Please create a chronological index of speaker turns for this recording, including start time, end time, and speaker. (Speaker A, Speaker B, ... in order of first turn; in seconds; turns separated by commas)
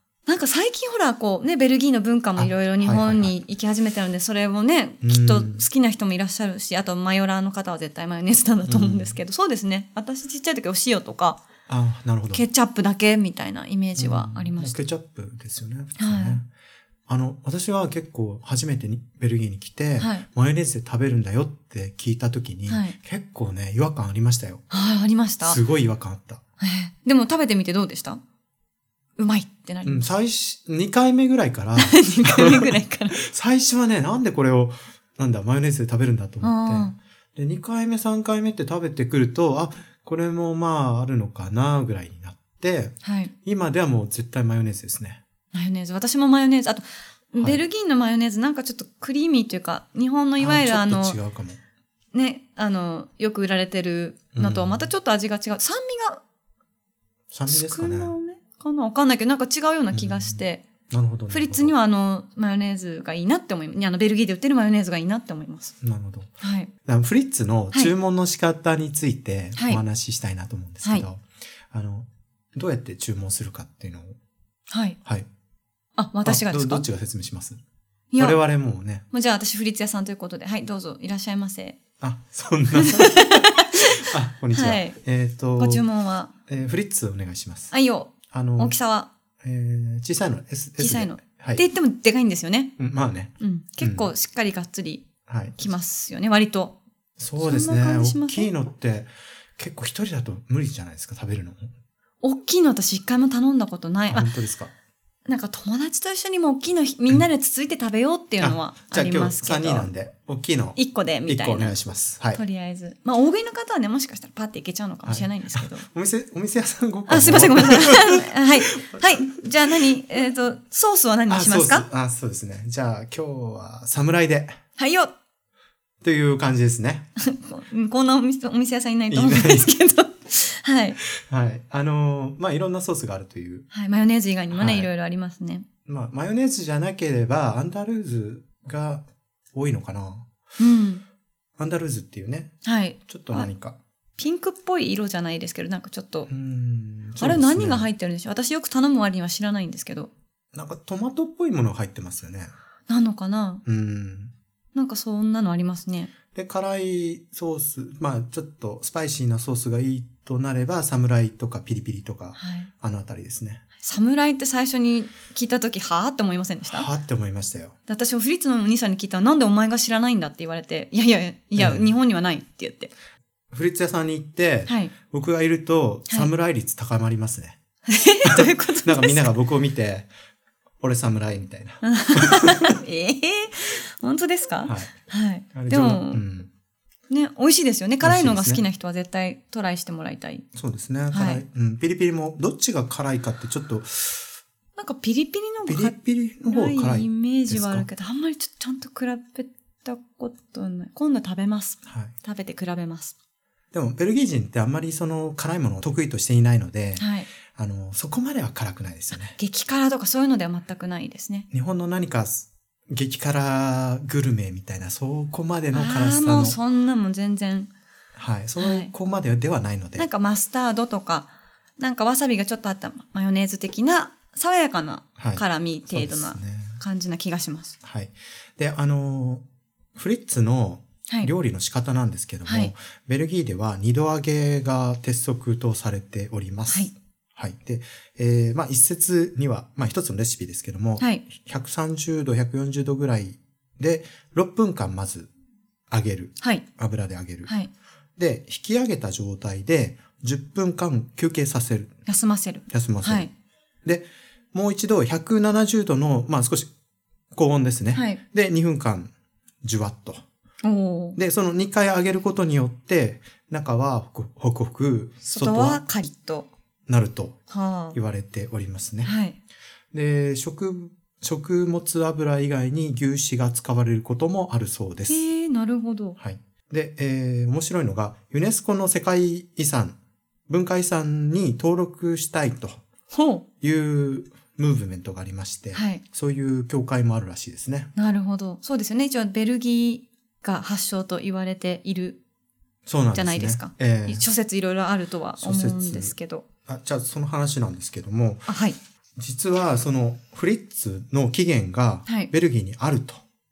Speaker A: 0.3-11.4, Speaker B: 2.4-3.4, Speaker B: 5.0-5.7, Speaker B: 8.7-9.2, Speaker B: 11.7-12.4, Speaker A: 12.3-14.8, Speaker B: 14.0-16.4, Speaker A: 16.0-16.4, Speaker B: 17.1-24.6, Speaker A: 20.0-20.3, Speaker A: 22.7-23.0, Speaker A: 24.7-25.6, Speaker B: 25.4-26.4, Speaker A: 26.6-28.2, Speaker A: 29.2-30.1, Speaker B: 29.9-45.2, Speaker A: 31.8-33.2, Speaker A: 36.4-37.0, Speaker A: 43.0-43.3, Speaker A: 45.5-51.2, Speaker B: 50.4-51.6, Speaker A: 52.1-56.2, Speaker B: 54.4-54.9, Speaker B: 57.3-58.1, Speaker A: 57.5-60.6, Speaker B: 59.9-61.8, Speaker A: 61.3-65.8, Speaker B: 65.8-66.3, Speaker A: 66.4-66.7, Speaker B: 66.8-74.2, Speaker A: 69.5-69.8, Speaker A: 74.7-75.0, Speaker A: 76.0-76.9, Speaker B: 76.2-77.6, Speaker A: 78.1-78.4, Speaker B: 78.2-79.0, Speaker A: 79.1-81.8, Speaker B: 82.0-85.8, Speaker A: 83.0-85.0, Speaker A: 85.6-86.3, Speaker B: 86.5-87.7, Speaker A: 87.7-89.1, Speaker B: 88.3-88.8, Speaker B: 89.4-91.6, Speaker A: 90.8-92.7, Speaker B: 92.8-94.1, Speaker A: 93.4-96.8, Speaker B: 95.3-95.7, Speaker B: 97.2-101.7, Speaker A: 97.4-98.5, Speaker A: 102.2-104.3, Speaker B: 104.1-104.7, Speaker A: 105.3-109.9, Speaker B: 108.4-112.4, Speaker A: 110.8-111.8, Speaker A: 112.3-115.9, Speaker B: 115.0-119.2, Speaker A: 117.1-121.9, Speaker B: 121.3-124.6, Speaker A: 124.8-125.1, Speaker B: 126.0-127.1, Speaker A: 127.2-131.0, Speaker B: 129.1-129.7, Speaker B: 131.2-133.7, Speaker A: 133.7-135.7, Speaker B: 134.5-134.9, Speaker B: 135.9-140.2, Speaker A: 140.6-141.0, Speaker B: 141.6-142.5, Speaker A: 142.6-143.5, Speaker B: 143.1-143.8, Speaker A: 144.2-146.3, Speaker B: 146.3-147.9, Speaker A: 147.2-150.1, Speaker B: 150.5-152.5, Speaker A: 152.9-153.6, Speaker B: 153.7-154.3, Speaker A: 154.7-156.1, Speaker B: 156.3-163.6, Speaker A: 162.4-162.7, Speaker A: 163.8-166.9, Speaker B: 166.7-167.8, Speaker A: 167.9-172.9, Speaker B: 171.6-171.9, Speaker B: 173.5-177.6, Speaker A: 174.7-174.9, Speaker A: 177.8-179.3, Speaker B: 178.2-180.1, Speaker B: 180.8-182.7, Speaker A: 181.8-186.2, Speaker B: 184.6-184.9, Speaker B: 185.5-186.5, Speaker A: 187.1-190.5, Speaker B: 188.0-188.7, Speaker B: 190.6-194.3, Speaker A: 191.1-191.4, Speaker A: 194.8-203.1, Speaker B: 195.7-197.9, Speaker B: 201.9-202.1, Speaker B: 203.7-209.4, Speaker A: 207.0-207.3, Speaker A: 209.2-211.5, Speaker B: 211.5-216.6, Speaker A: 215.7-217.7, Speaker B: 218.2-220.1, Speaker A: 218.6-218.9, Speaker A: 220.0-227.8, Speaker B: 225.2-226.8, Speaker B: 227.8-229.4, Speaker B: 229.9-245.3, Speaker A: 231.1-231.3, Speaker A: 232.4-232.7, Speaker A: 241.0-241.2, Speaker B: 245.9-247.5, Speaker A: 247.4-247.7, Speaker B: 248.2-251.9, Speaker A: 252.1-253.3, Speaker B: 252.7-253.3, Speaker B: 253.8-256.7, Speaker B: 257.3-259.1, Speaker A: 257.9-258.2, Speaker B: 259.6-260.2, Speaker A: 260.6-261.2, Speaker B: 261.2-265.8, Speaker A: 265.2-266.5, Speaker B: 266.9-267.4, Speaker A: 267.5-268.0, Speaker B: 267.9-269.1, Speaker A: 269.0-269.4, Speaker B: 269.9-275.2, Speaker A: 275.1-276.2, Speaker B: 276.2-280.0, Speaker B: 280.5-282.8, Speaker A: 283.1-283.4, Speaker B: 283.6-287.9, Speaker A: 285.7-286.0, Speaker A: 287.9-292.2, Speaker B: 292.9-294.2, Speaker A: 293.1-296.4, Speaker B: 295.4-296.1, Speaker B: 296.7-298.5, Speaker A: 298.5-298.8, Speaker B: 299.2-303.2, Speaker A: 302.1-302.3